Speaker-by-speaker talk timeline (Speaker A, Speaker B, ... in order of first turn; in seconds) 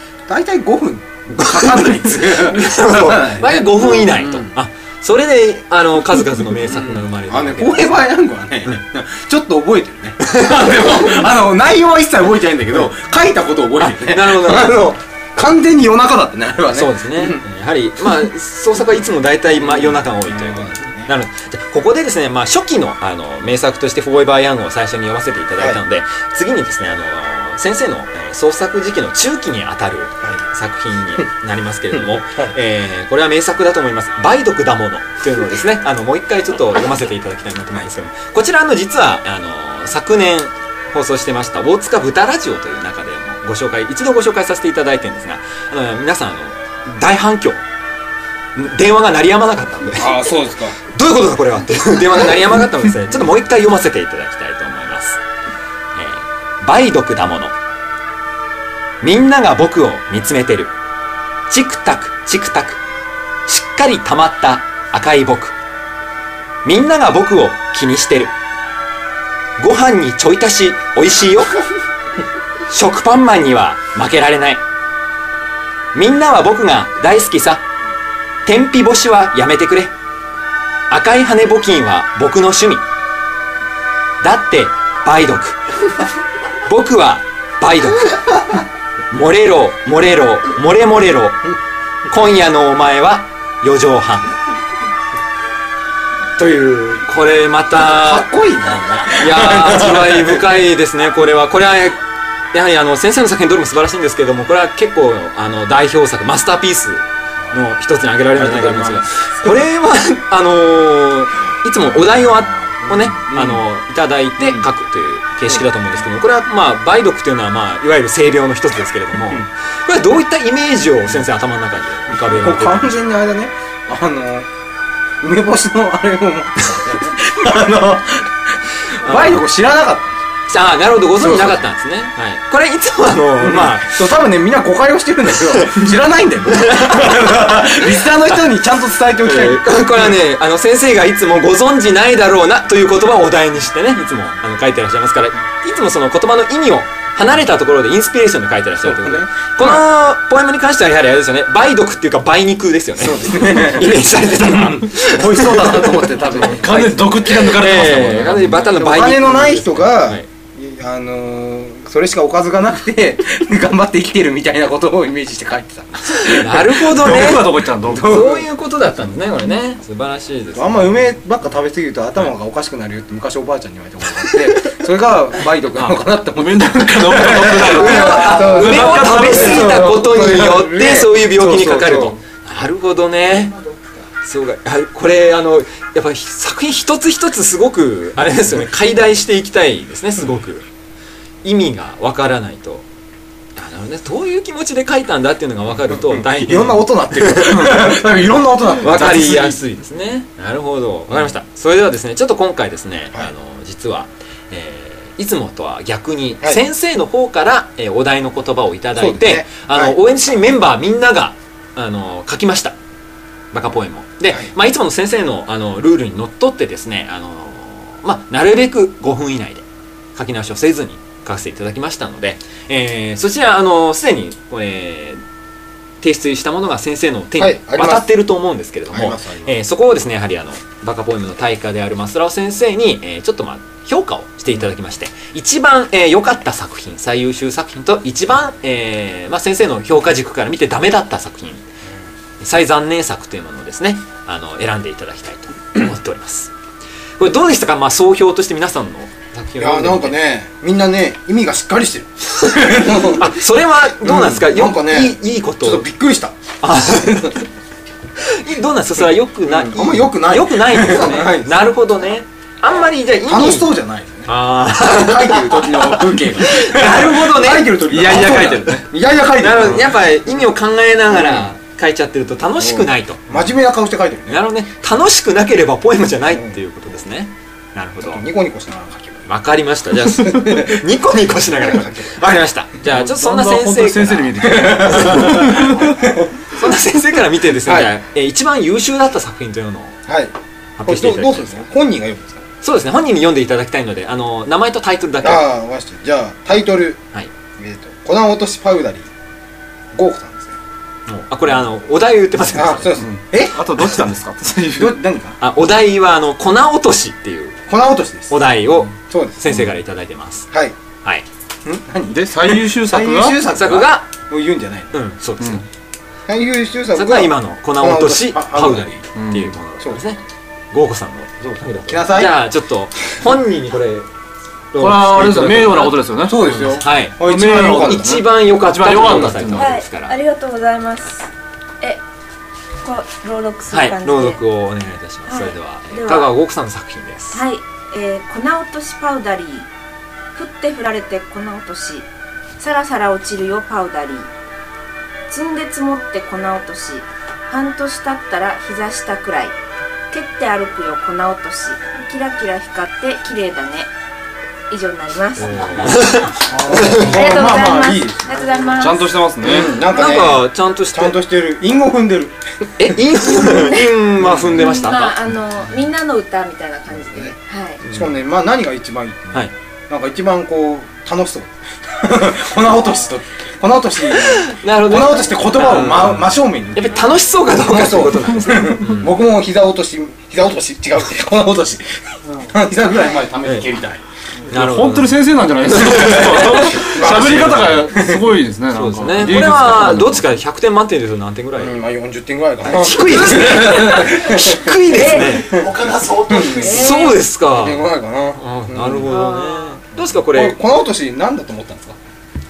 Speaker A: 0.3-4.5, 6.6-17.4, 19.6-21.1, 50.0-50.8, 97.8-100.4, 108.4-109.6, 112.2-113.6, 114.4-114.7, 122.1-124.5, 125.2-130.2, 131.2-131.6, 133.4-139.8, 148.8-149.8, 153.0-157.6, 158.5-167.1, 167.9-168.4, 170.6-182.1, 195.9-199.6, 209.0-210.0, 227.4-228.1, 228.9-229.6, 249.6-253.3, 254.0-256.4, 259.5-261.7, 263.2-270.0, 271.1-271.5, 272.6-274.4, 276.3-276.6, 278.0-279.2, 280.1-280.9, 281.5-282.2, 284.4-286.3, 287.6-287.9, 290.1-292.4, 295.2-297.0, 297.6-299.1, 299.9-300.6, 302.5-303.9, 304.7-305.4, 307.7-308.4, 309.0-309.5, 311.6-314.9, 316.3-319.1, 321.9-322.4, 326.2-328.2, 356.5-358.5, 359.4-362.4, 362.9-363.6, 364.2-364.6, 367.0-384.0, 385.9-388.3, 391.6-395.7, 396.2-399.1, 400.1-402.0
Speaker B: 1.5-8.0, 10.3-11.0, 13.8-14.9, 16.7-47.6, 48.5-50.3, 50.8-55.2, 56.0-57.5, 59.0-60.7, 61.5-62.8, 63.5-65.6, 66.7-68.3, 69.6-71.5, 72.7-74.6, 75.9-77.6, 78.5-79.9, 80.9-82.8, 84.2-85.6, 86.7-88.4, 89.1-91.5, 92.1-94.3, 96.4-98.3, 99.1-102.0, 102.5-123.0, 129.0-129.4, 130.5-134.0, 136.5-138.4, 139.2-156.4, 157.3-160.3, 166.1-170.9, 177.4-183.6, 184.2-190.7, 191.4-192.9, 193.6-197.9, 198.8-212.8, 213.5-225.2, 226.0-241.7, 242.4-246.5, 247.2-250.2, 252.9-255.9, 256.6-257.4, 258.2-263.7, 264.3-268.6, 269.4-273.4, 274.3-278.2, 279.3-285.8, 286.5-290.0, 290.8-291.7, 292.6-295.5, 301.1-303.0, 305.4-307.6, 308.3-310.5, 313.5-314.1, 314.9-315.7, 316.9-324.1, 324.7-330.2, 333.7-337.4, 355.5-357.2, 359.8-361.2, 362.8-365.2, 374.2-379.2, 384.5-385.2, 385.9-386.8, 388.7-391.8, 392.7-395.6, 396.6-400.6
Speaker C: 156.3-158.7, 166.9-168.3, 175.8-179.9, 181.4-182.1, 267.9-268.8, 282.9-285.9, 303.0-305.0, 312.1-313.4, 319.2-319.5, 324.8-329.8, 358.8-359.8, 384.5-390.2
Speaker D: 178.0-178.7, 395.6-396.9
Speaker E: 329.6-331.3, 332.8-334.4, 335.3-336.3, 337.3-339.7, 340.4-342.1, 342.6-344.3, 345.3-349.6, 350.1-353.9, 354.7-356.1, 356.8-359.2, 364.6-367.8, 394.9-395.4, 396.4-397.2, 399.1-399.8